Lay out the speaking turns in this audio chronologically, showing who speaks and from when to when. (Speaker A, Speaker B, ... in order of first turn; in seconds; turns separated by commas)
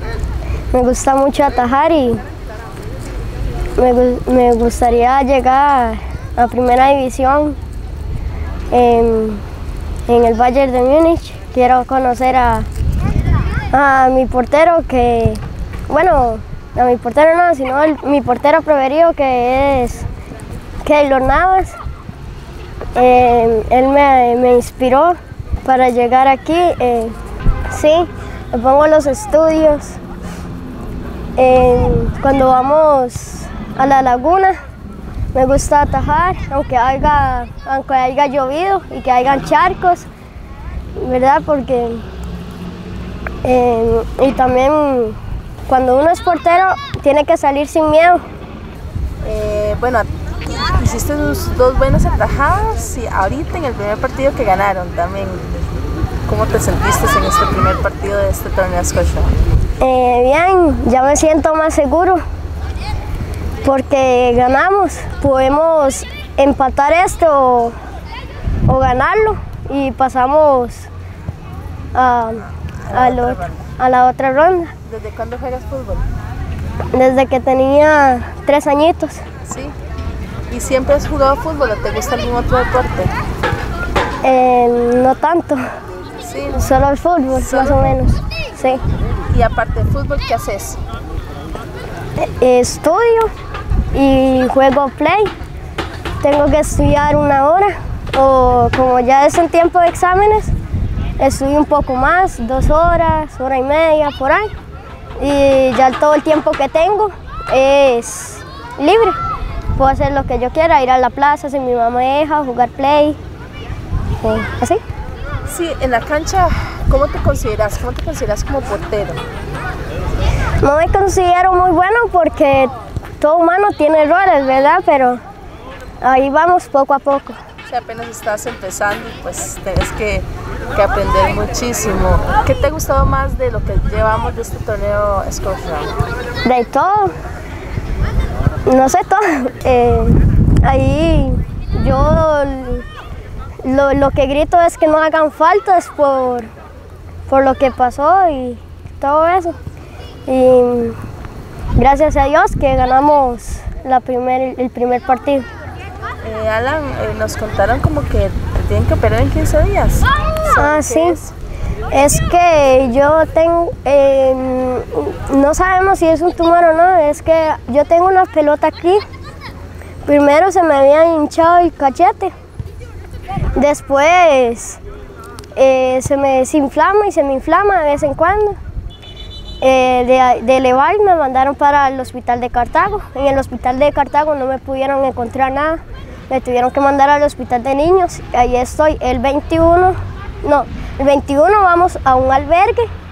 Speaker A: 0.7-2.2, Speaker A: 3.7-7.6, Speaker A: 8.7-9.4, Speaker A: 10.1-12.7, Speaker A: 13.7-20.1, Speaker A: 20.8-21.8, Speaker A: 22.9-27.1, Speaker A: 27.7-30.0, Speaker A: 31.4-34.6, Speaker A: 35.3-40.1, Speaker A: 41.0-42.0, Speaker A: 43.4-48.2, Speaker B: 49.2-55.7, Speaker B: 56.2-59.3, Speaker A: 59.8-62.2, Speaker A: 63.6-67.8, Speaker A: 68.7-70.9, Speaker A: 71.9-74.7, Speaker B: 72.9-73.6, Speaker B: 74.8-76.1, Speaker A: 76.9-79.2, Speaker B: 79.5-79.8, Speaker B: 80.5-83.1, Speaker A: 84.2-85.7, Speaker B: 86.2-86.7, Speaker A: 86.5-88.8, Speaker B: 87.3-87.9, Speaker B: 89.3-90.8, Speaker A: 92.2-93.3, Speaker A: 93.9-95.3, Speaker A: 96.2-100.5, Speaker A: 101.2-104.5, Speaker A: 105.2-109.2, Speaker A: 109.7-113.2, Speaker A: 114.2-114.8, Speaker B: 115.5-119.2, Speaker A: 120.6-125.2, Speaker A: 126.0-127.4, Speaker B: 127.7-135.9, Speaker A: 136.4-137.1, Speaker A: 138.6-142.8, Speaker A: 143.6-146.5, Speaker A: 147.3-149.6, Speaker A: 150.3-151.0, Speaker A: 151.7-155.4, Speaker B: 156.2-161.3, Speaker A: 160.5-161.2, Speaker A: 161.9-169.0, Speaker A: 170.0-172.3, Speaker A: 173.5-174.8, Speaker A: 175.5-178.6, Speaker A: 179.6-192.9